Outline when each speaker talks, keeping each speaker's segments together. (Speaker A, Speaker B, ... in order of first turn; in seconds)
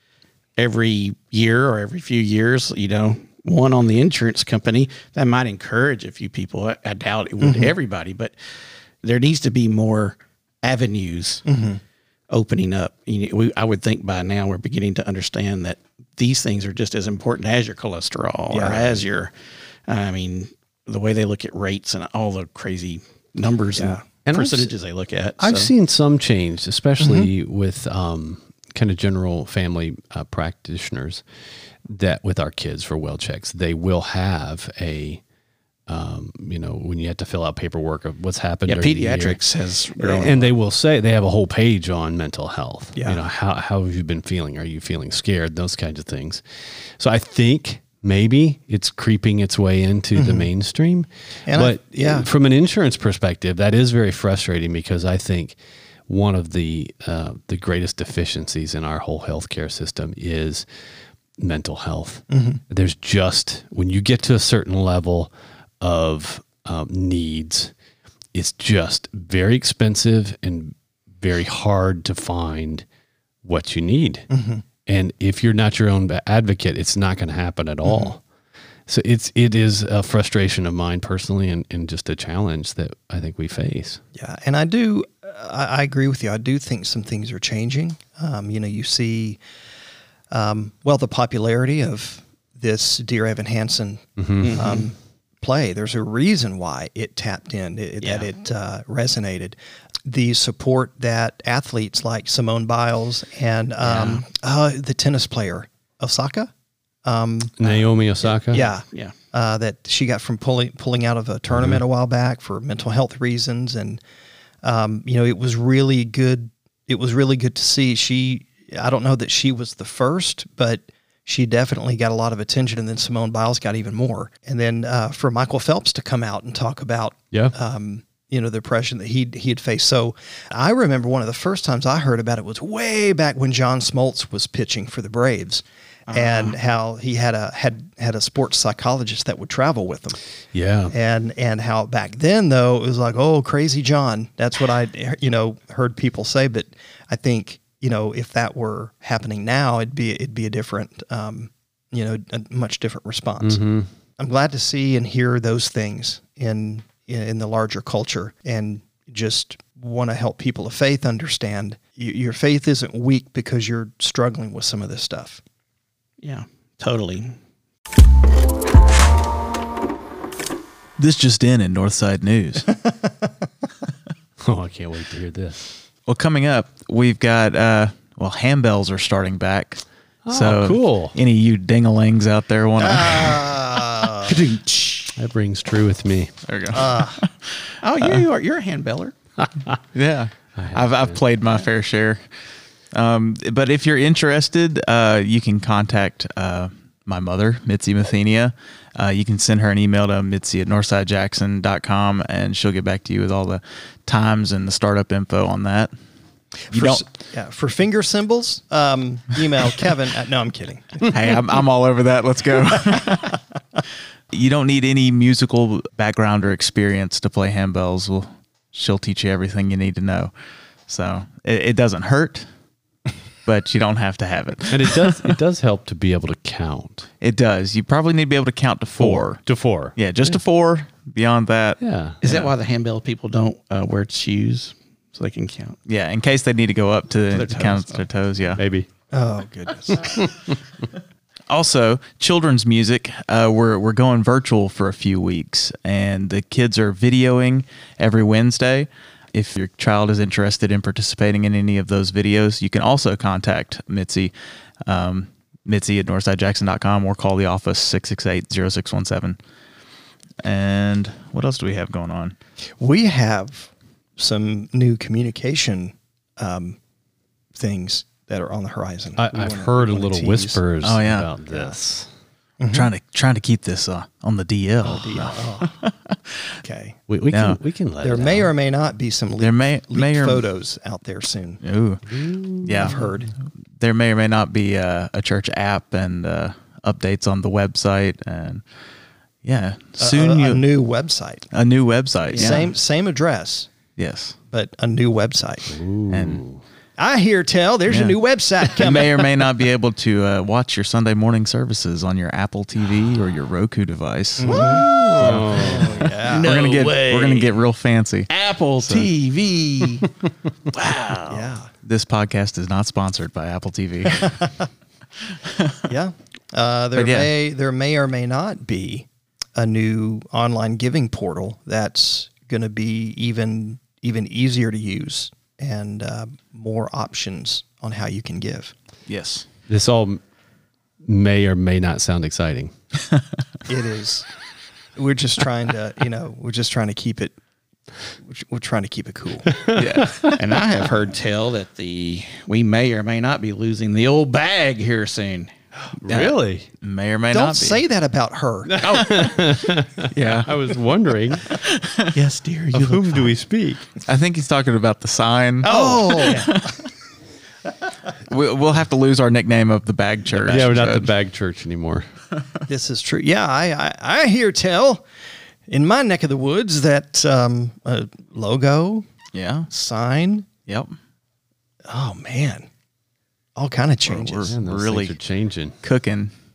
Speaker A: 0.6-8.3, 9.0-11.4, 12.3-19.3, 19.9-25.7, 38.7-40.5, 94.4-94.9, 98.0-98.3, 103.8-104.2, 108.2-109.1, 136.1-136.5, 166.2-167.3, 184.3-185.1, 187.8-189.1, 232.2-235.8, 237.3-238.0, 292.3-292.7, 304.4-305.3, 306.2-307.5, 308.3-310.1, 310.7-311.5, 340.4-345.5, 352.1-353.3, 355.6-356.5
Speaker B: 7.4-7.7, 11.4-11.8, 18.5-19.0, 23.8-24.0, 27.0-27.3, 42.9-43.2, 50.1-50.5, 51.5-52.3, 62.3-62.6, 74.3-74.6, 77.8-78.1, 84.1-89.4, 90.3-106.5, 107.0-107.8, 108.5-114.0, 114.6-140.2, 140.9-153.6, 154.2-165.4, 182.8-184.4, 186.7-187.2, 206.7-211.0, 239.1-240.0, 262.8-266.8, 267.5-270.6, 271.5-271.7, 272.6-272.9, 274.9-275.8, 276.6-277.0, 278.0-281.6, 282.8-283.3, 290.0-291.4, 292.3-293.7, 294.5-295.8, 297.0-299.2, 304.4-306.5, 311.3-311.7, 315.9-328.7, 333.7-334.3, 334.9-337.3, 338.2-339.5, 347.3-348.8, 355.6-356.6, 362.7-365.0, 365.7-369.1, 369.7-370.5, 371.9-372.7, 373.6-374.5
Speaker C: 24.2-24.7, 25.4-31.2, 31.9-35.2, 35.9-39.4, 40.0-60.6, 61.4-67.7, 68.3-72.8, 73.4-74.3, 74.8-78.2, 78.9-84.0, 94.2-94.6, 107.6-108.6, 111.5-111.8, 140.5-140.9, 153.4-153.9, 174.4-175.6, 180.2-181.1, 185.2-186.3, 189.4-189.8, 190.6-191.2, 224.7-227.1, 229.0-230.4, 231.8-232.2, 238.5-238.9, 240.0-240.5, 269.1-272.1, 274.9-275.3, 277.1-278.5, 282.1-283.0, 295.7-296.6, 304.7-306.1, 329.7-330.2, 331.0-332.7, 339.5-340.3, 345.9-346.7, 348.7-351.5, 352.7-353.9, 360.3-362.1, 374.5-375.7
Speaker D: 171.0-172.8, 176.1-183.6, 186.4-188.2, 189.9-205.9, 206.7-207.0, 211.1-213.4, 214.3-220.3, 220.8-222.5, 223.4-225.4, 227.2-232.5, 235.9-238.6, 241.5-254.3, 254.8-259.4, 260.4-262.4, 270.8-271.3, 272.7-276.6, 277.3-277.6, 279.4-280.4, 281.6-283.0, 283.8-288.6, 289.4-290.6, 291.5-292.7, 294.0-294.4, 296.1-296.4, 297.9-308.3, 308.9-309.1, 311.8-314.4, 315.3-315.8, 316.9-317.3, 329.1-329.4, 339.7-340.4, 346.1-347.8, 350.1-350.5, 351.5-352.1, 354.0-356.9, 358.3-361.1, 369.3-369.7, 370.7-370.9, 374.1-375.2, 375.8-376.3